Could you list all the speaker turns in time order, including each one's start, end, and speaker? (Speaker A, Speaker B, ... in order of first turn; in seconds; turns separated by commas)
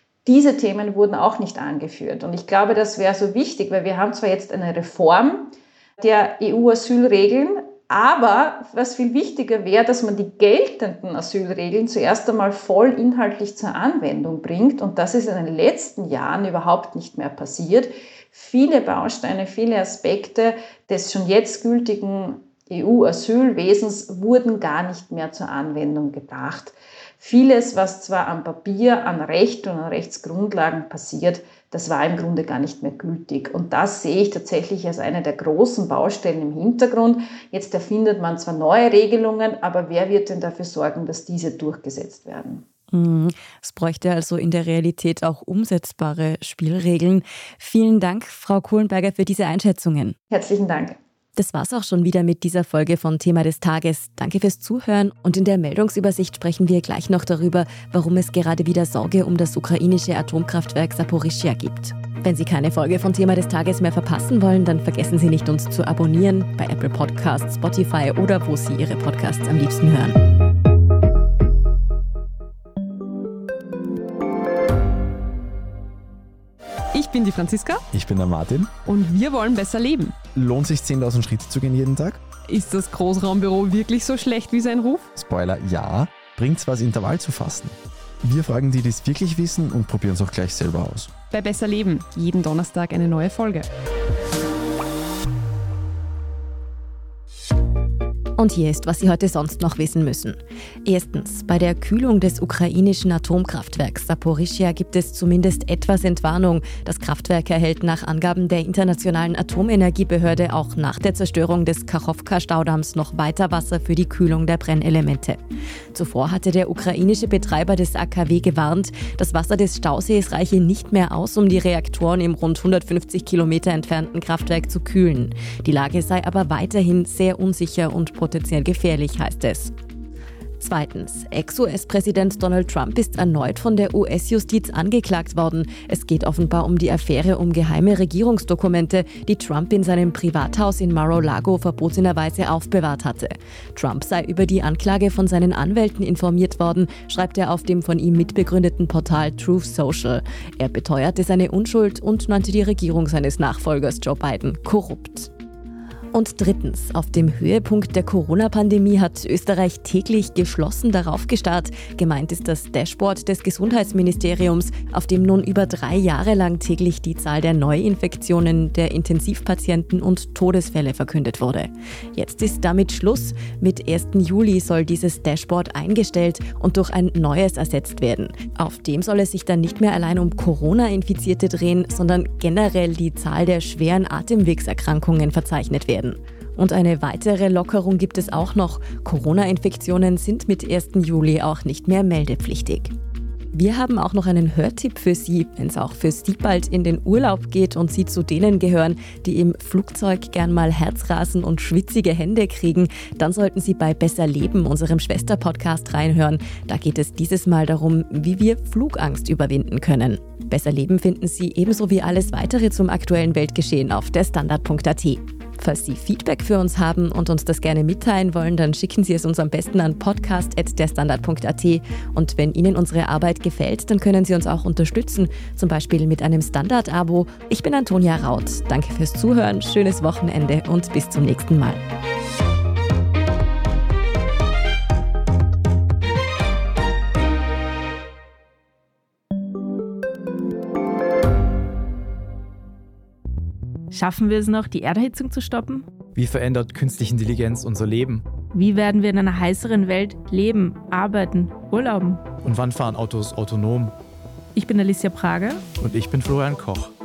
Speaker A: 0.2-42.6, Speaker B: 42.9-50.1, Speaker A: 50.3-51.0, Speaker B: 51.4-70.2, Speaker C: 76.9-77.8, Speaker D: 77.9-78.7, Speaker C: 78.8-80.3, Speaker D: 80.3-82.2, Speaker C: 82.5-85.1, Speaker D: 85.1-91.1, Speaker C: 91.3-93.7, Speaker B: 98.4-115.4, Speaker B: 115.9-129.7, Speaker B: 130.6-155.3, Speaker B: 156.1-192.9, Speaker B: 193.5-231.8, Speaker E: 243.9-245.9, Speaker F: 246.1-248.2, Speaker E: 248.5-252.3, Speaker F: 252.4-254.0, Speaker E: 254.6-255.6, Speaker F: 255.8-256.9